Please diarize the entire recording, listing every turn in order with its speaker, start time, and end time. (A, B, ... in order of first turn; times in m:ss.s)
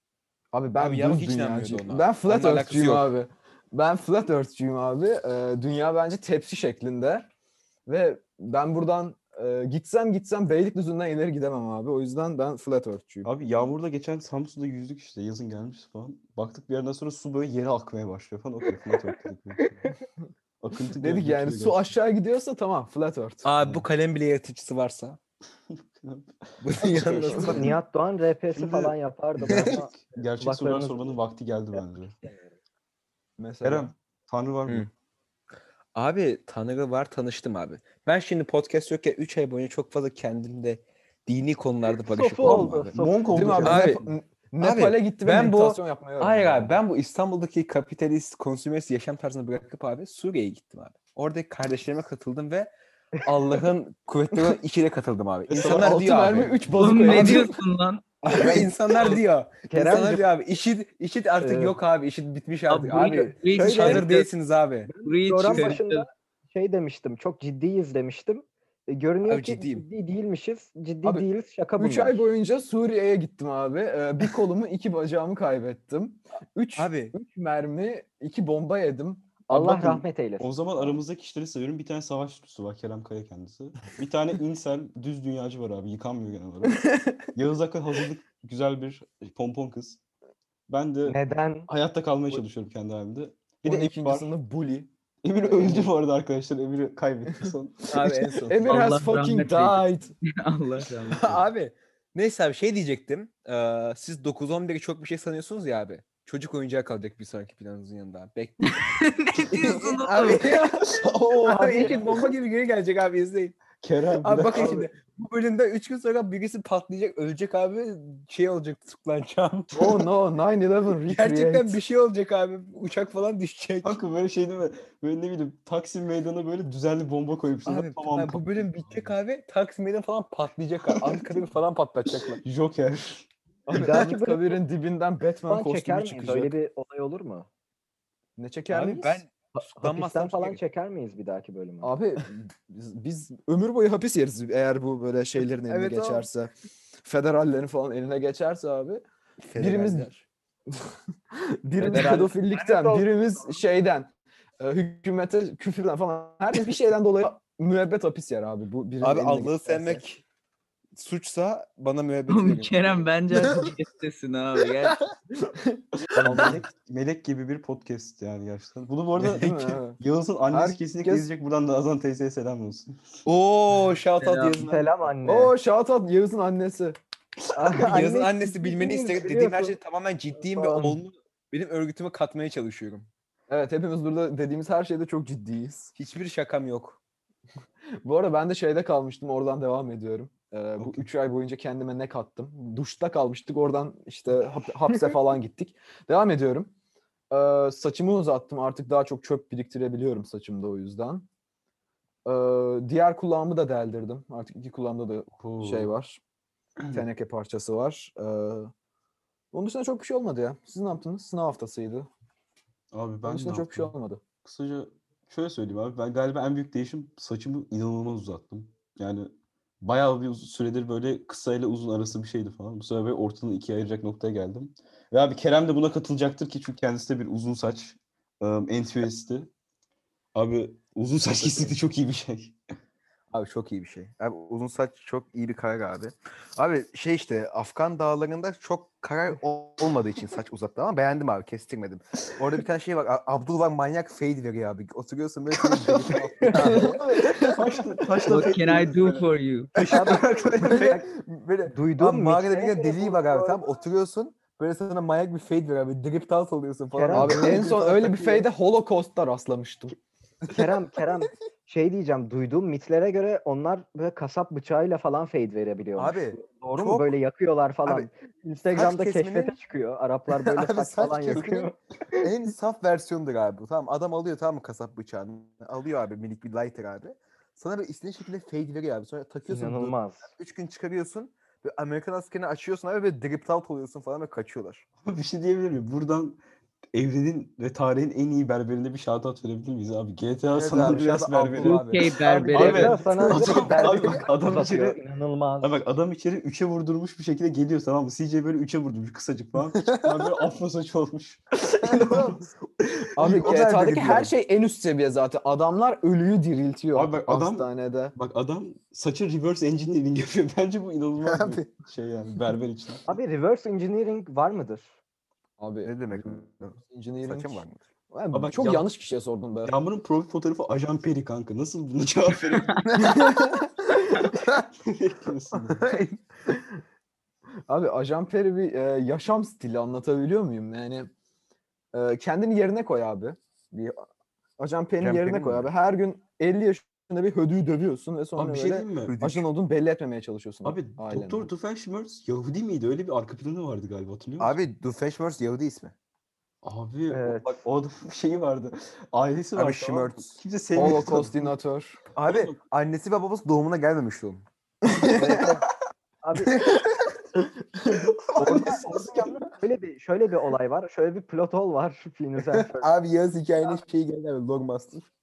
0:00.5-0:07.3 A
0:00.8-0:03.1 B
0:07.9-0:13.3 A
0:13.2-0:20.0 C
0:20.6-0:21.9 C
0:21.0-0:23.5 A
0:23.4-0:25.2 B
0:23.6-0:23.8 C
0:25.7-0:27.8 C
0:26.6-0:27.7 B
0:27.0-0:31.2 D
0:28.5-0:32.2 C
0:29.5-0:29.8 B
0:31.8-0:32.5 D
0:33.4-0:33.9 A
0:33.6-0:34.9 C
0:35.9-0:43.0 B
0:42.1-0:43.5 D
0:42.4-0:44.1 C
0:43.3-0:46.8 A
0:43.6-0:44.0 B
0:44.6-0:57.2 B
0:54.3-0:54.6 A
0:55.5-0:57.3 C
0:55.6-0:57.5 A
0:56.8-0:58.0 E
0:58.2-1:04.9 B
0:59.7-1:00.3 D
1:01.4-1:01.8 D
1:02.7-1:04.3 E
1:03.5-1:04.1 D
1:04.9-1:12.2 D
1:05.0-1:06.1 E
1:05.5-1:05.8 B
1:09.2-1:09.8 B
1:11.8-1:19.5 A
1:16.8-1:17.1 B
1:19.5-1:21.0 D
1:19.5-1:30.0 C
1:26.9-1:27.2 A
1:30.7-1:34.3 C
1:31.1-1:31.7 D
1:33.6-1:34.9 A
1:35.2-1:37.9 C
1:37.9-1:38.5 B
1:37.9-1:40.1 A
1:38.5-1:41.4 E
1:41.1-1:48.9 B
1:48.6-1:50.5 E
1:49.5-1:53.6 B
1:51.4-1:52.3 D
1:53.8-1:54.9 C
1:54.2-2:00.1 B
1:59.7-2:01.8 A
2:01.1-2:04.0 B
2:03.8-2:09.1 C
2:07.7-2:12.4 B
2:10.8-2:11.5 C
2:12.1-2:13.3 C
2:13.7-2:16.6 A
2:13.7-2:14.6 D
2:15.5-2:17.5 D
2:18.4-2:19.2 A
2:18.7-2:20.6 B
2:19.8-2:21.9 D
2:21.8-2:26.5 A
2:25.7-2:26.3 B
2:27.0-2:29.0 A
2:29.4-2:30.2 B
2:29.6-2:30.1 A
2:31.3-2:40.0 A
2:31.8-2:32.4 B
2:31.9-2:33.5 D
2:39.0-2:40.2 B
2:41.0-2:43.1 B
2:42.3-2:45.1 E
2:46.1-2:53.2 C
2:46.2-2:46.6 A
2:46.2-2:46.6 B
2:49.2-2:50.0 A
2:50.5-2:51.3 A
2:53.3-2:54.8 B
2:54.2-2:54.6 E
2:54.6-2:55.5 D
2:55.2-2:57.0 A
2:57.5-2:59.8 D
2:57.6-3:03.1 B
3:00.4-3:01.0 D
3:03.5-3:05.9 A
3:06.0-3:07.0 B
3:08.0-3:16.7 A
3:10.8-3:11.1 C
3:17.3-3:21.3 A
3:22.2-3:26.2 A
3:25.4-3:25.9 C
3:26.8-3:27.0 C
3:26.9-3:28.7 A
3:29.5-3:32.1 A
3:32.9-3:49.5 C
3:33.2-3:34.2 A
3:50.4-3:52.6 C
3:51.4-3:51.8 B
3:53.3-4:07.0 B
4:05.5-4:06.8 C
4:06.4-4:06.9 D
4:06.5-4:07.8 A
4:07.4-4:11.0 C
4:08.3-4:09.8 E
4:09.8-4:11.1 D
4:10.6-4:18.5 B
4:11.7-4:13.6 D
4:16.9-4:17.7 D
4:17.1-4:20.0 A
4:20.5-4:32.3 D
4:26.0-4:27.1 B
4:28.7-4:29.5 B
4:30.4-4:44.8 B
4:39.5-4:40.3 D
4:45.0-4:46.4 C
4:46.9-4:51.9 C
4:50.5-4:52.1 B
4:51.6-4:53.3 E
4:52.2-4:55.7 D
4:52.5-4:55.0 C
4:55.6-5:03.5 C
4:59.8-5:00.3 B
5:01.8-5:02.4 B
5:03.2-5:08.2 A
5:03.2-5:04.3 B
5:06.9-5:13.1 C
5:11.2-5:11.7 B
5:13.1-5:14.9 D
5:15.6-5:19.8 A
5:15.8-5:17.8 B
5:18.3-5:18.9 C
5:19.6-5:23.0 C
5:22.6-5:22.9 E
5:23.0-5:24.2 A
5:24.5-5:25.9 C
5:25.7-5:26.2 B
5:27.7-5:31.1 A
5:31.9-5:34.1 A
5:34.6-5:41.5 A
5:35.0-5:35.7 B
5:38.4-5:39.2 C
5:39.0-5:39.5 B
5:40.6-5:44.6 C
5:44.4-5:45.9 B
5:46.6-5:51.5 C
5:47.1-5:47.6 D
5:49.6-5:51.1 B
5:50.8-5:52.0 A
5:52.2-5:54.4 B
5:52.2-5:52.6 C
5:54.8-5:55.4 A
5:55.1-5:55.7 D
5:56.2-5:56.8 D
5:56.4-5:56.8 B
5:57.8-5:58.1 A
5:57.9-5:59.3 C
5:58.4-6:02.9 D
6:02.5-6:05.1 B